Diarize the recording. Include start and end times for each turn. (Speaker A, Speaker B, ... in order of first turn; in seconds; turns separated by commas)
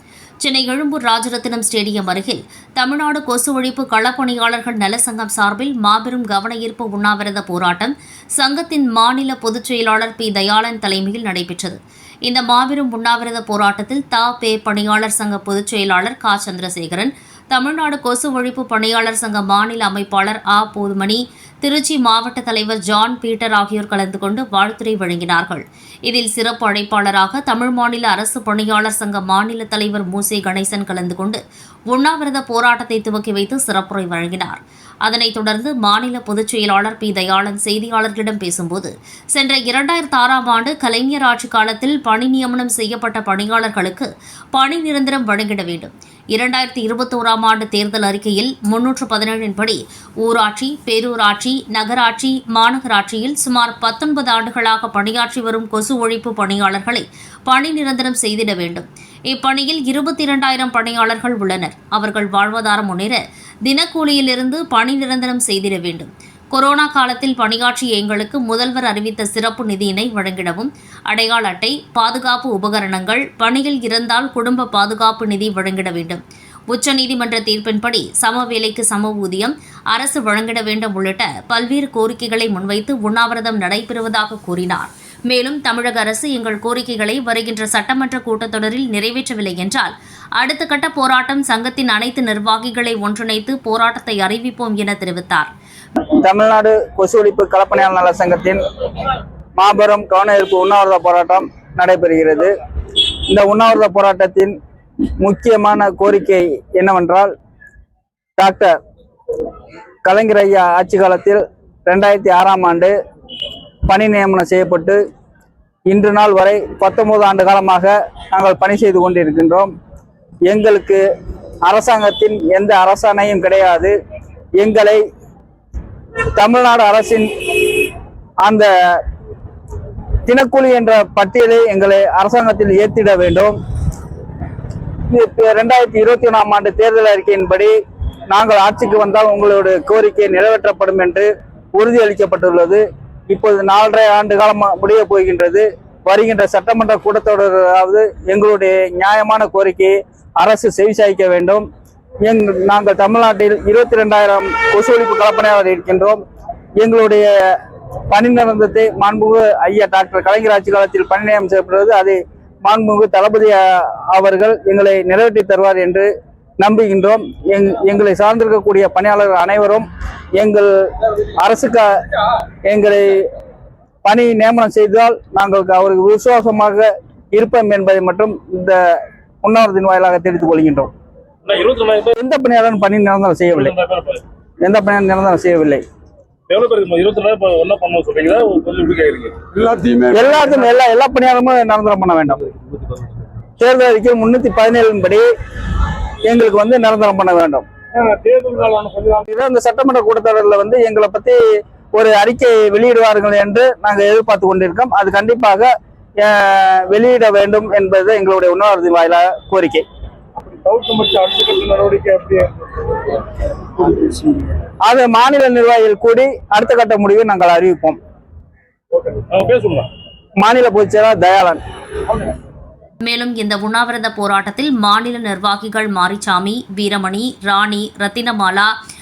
Speaker A: 0.4-95.5, Speaker B: 96.2-98.6, Speaker B: 99.6-102.5, Speaker B: 103.3-104.5, Speaker B: 105.2-107.3, Speaker B: 108.4-108.7, Speaker B: 110.0-112.9, Speaker B: 113.9-115.0, Speaker B: 115.9-119.7, Speaker B: 120.5-121.0, Speaker B: 121.7-123.9, Speaker B: 124.6-125.0, Speaker B: 126.3-127.9, Speaker B: 128.4-129.0, Speaker B: 130.3-133.5, Speaker B: 135.1-137.7, Speaker B: 138.3-151.7, Speaker B: 152.2-156.2, Speaker B: 156.8-157.3, Speaker B: 158.1-166.1, Speaker B: 166.6-170.7, Speaker B: 171.4-171.9, Speaker B: 172.7-173.3, Speaker B: 174.0-180.9, Speaker C: 181.4-182.1, Speaker B: 182.2-183.7, Speaker C: 183.5-184.2, Speaker B: 184.6-185.8, Speaker C: 186.5-189.9, Speaker B: 190.1-192.4, Speaker B: 193.6-195.2, Speaker B: 196.3-197.7, Speaker C: 197.9-199.2, Speaker B: 199.3-201.4, Speaker B: 201.9-209.8, Speaker C: 210.3-212.9, Speaker B: 214.8-218.0, Speaker C: 218.9-219.9, Speaker B: 220.4-221.6, Speaker A: 223.0-228.7